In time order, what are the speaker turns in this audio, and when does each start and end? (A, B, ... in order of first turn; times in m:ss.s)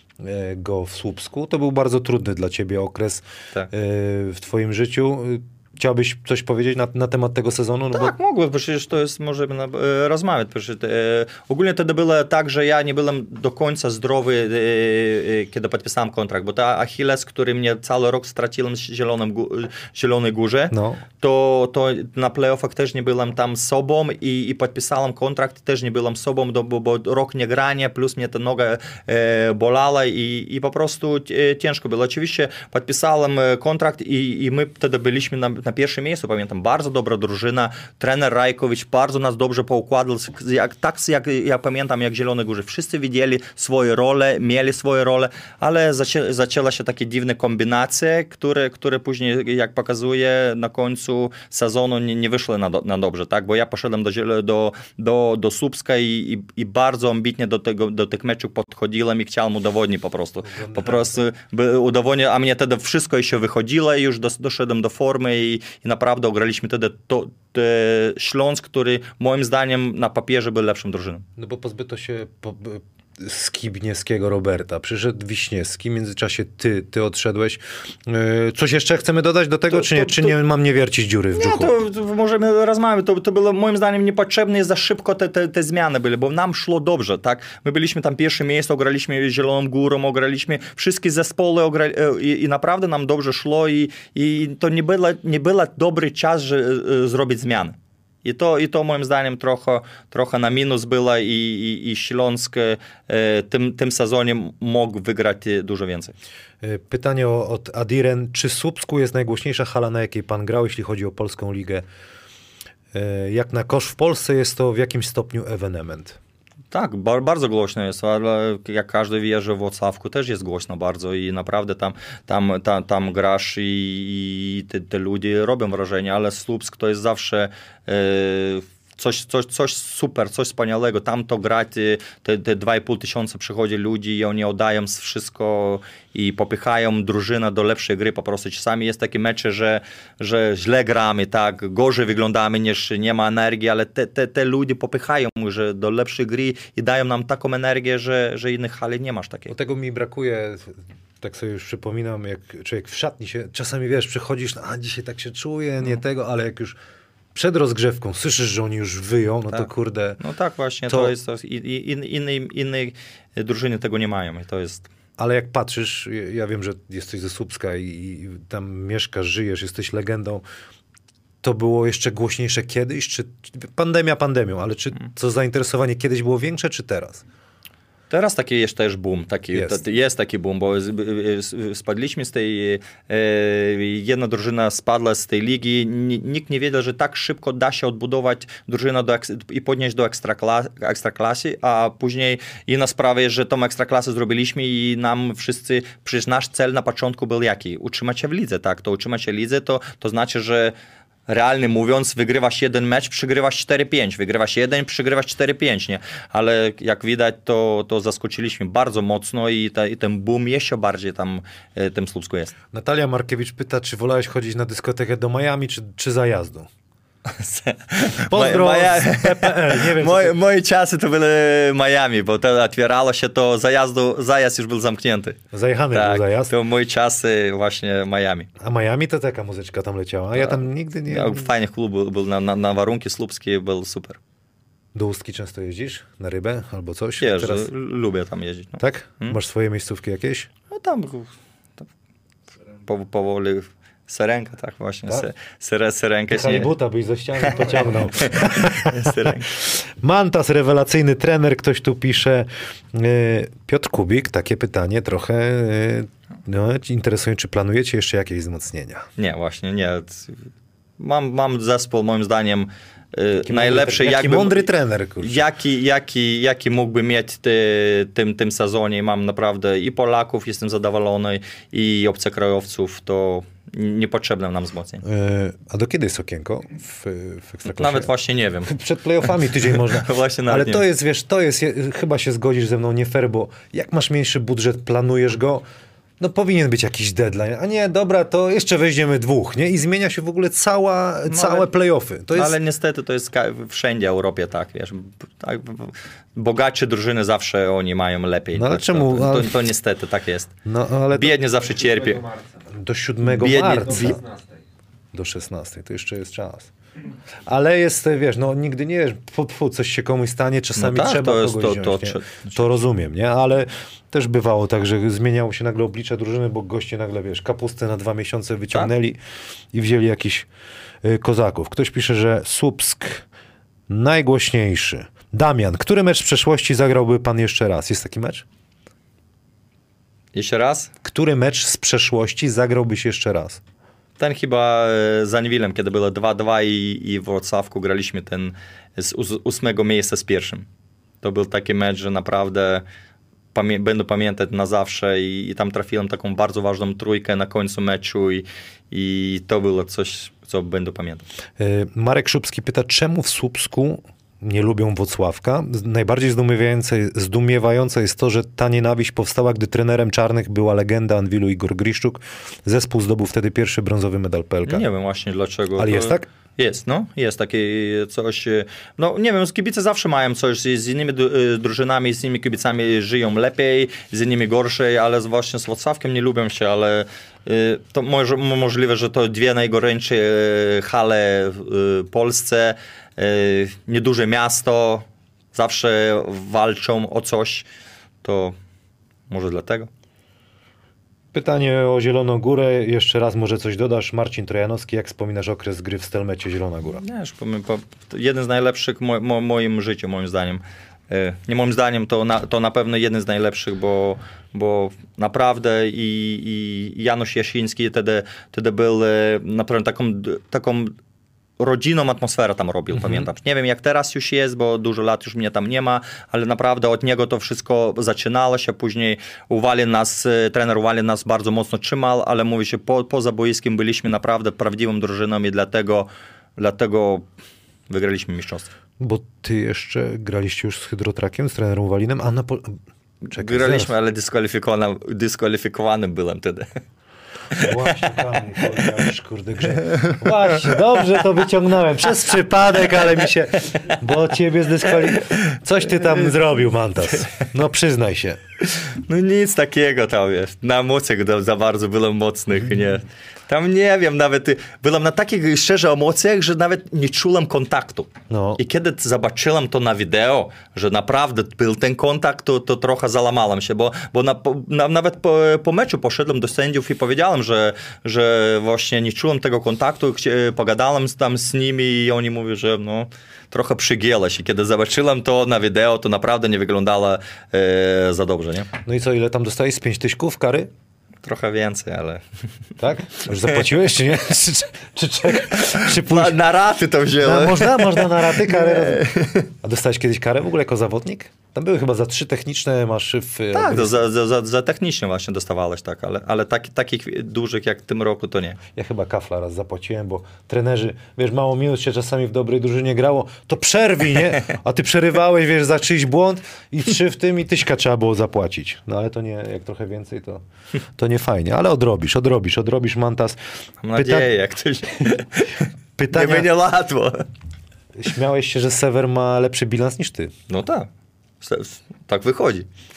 0:00.2-0:08.1 A
0:07.9-1:11.2 B
0:20.7-0:21.0 A
1:00.4-1:01.2 A
1:11.4-1:21.7 A
1:19.7-1:20.3 B
1:21.3-1:46.1 B
1:46.6-1:51.8 A
1:52.9-1:56.2 A
1:56.7-2:29.5 B
2:29.5-2:36.8 A
2:37.3-2:40.2 A
2:40.2-2:44.9 B
2:40.9-2:41.1 A
2:45.2-2:50.4 A
2:51.4-2:57.2 A
2:58.1-3:20.7 B
2:59.5-2:59.8 A
3:21.3-3:32.5 B
3:32.7-3:36.7 A
3:37.2-3:45.4 B
3:38.3-3:40.4 A
3:45.5-3:46.5 A
3:45.9-3:48.5 B
3:48.6-3:51.5 A
3:50.4-3:54.2 B
3:54.9-3:57.7 A
3:57.2-3:59.4 B
3:58.8-4:00.5 A
4:00.7-4:01.9 B
4:02.8-4:06.7 B
4:06.3-4:19.1 A
4:07.4-4:09.5 B
4:19.2-4:20.5 B
4:21.0-4:24.7 B
4:23.4-4:25.4 A
4:25.2-4:35.0 B
4:35.0-4:38.1 A
4:37.6-4:38.7 B
4:38.6-4:45.6 A
4:39.5-4:40.8 B
4:46.2-4:52.6 A
4:51.2-4:51.7 B
4:52.3-5:00.5 B
4:58.5-4:59.6 A
5:00.6-5:01.4 A
5:01.1-5:02.2 B
5:01.4-5:02.7 C
5:02.7-5:04.2 A
5:03.2-5:04.2 B
5:03.8-5:04.6 C
5:05.1-5:06.7 A
5:07.4-5:19.2 A
5:10.8-5:12.7 B
5:19.7-5:20.5 A
5:21.0-5:23.2 A
5:23.9-5:28.4 A
5:30.3-5:30.9 B
5:31.0-5:33.6 A
5:34.2-5:40.6 B
5:41.2-5:42.8 B
5:43.5-5:51.2 B
5:51.6-6:04.8 A
6:04.6-6:27.7 B
6:05.8-6:06.3 A
6:28.2-6:28.6 B
6:29.3-6:29.9 B
6:31.3-6:37.0 A
6:36.9-6:50.9 B
6:51.6-7:07.3 B
6:52.9-6:53.3 A
7:07.9-7:08.7 B
7:09.0-7:12.8 A
7:13.2-7:16.7 B
7:13.3-7:13.9 A
7:17.5-7:19.0 B
7:17.6-7:28.4 A
7:19.8-7:21.2 B
7:23.6-7:24.0 B
7:25.1-7:26.3 B
7:27.0-7:27.4 B
7:28.6-7:58.7 B
7:38.3-7:38.6 A
7:58.8-8:00.7 A
8:01.2-8:02.2 B
8:02.8-8:06.4 A
8:05.5-8:09.5 B
8:07.2-8:14.0 A
8:13.5-8:18.6 B
8:18.7-8:30.4 A
8:31.0-8:33.4 A
8:33.8-8:37.2 B
8:33.9-8:34.3 A
8:36.0-8:36.5 A
8:38.0-8:40.3 A
8:40.5-8:40.9 B
8:41.4-8:42.7 B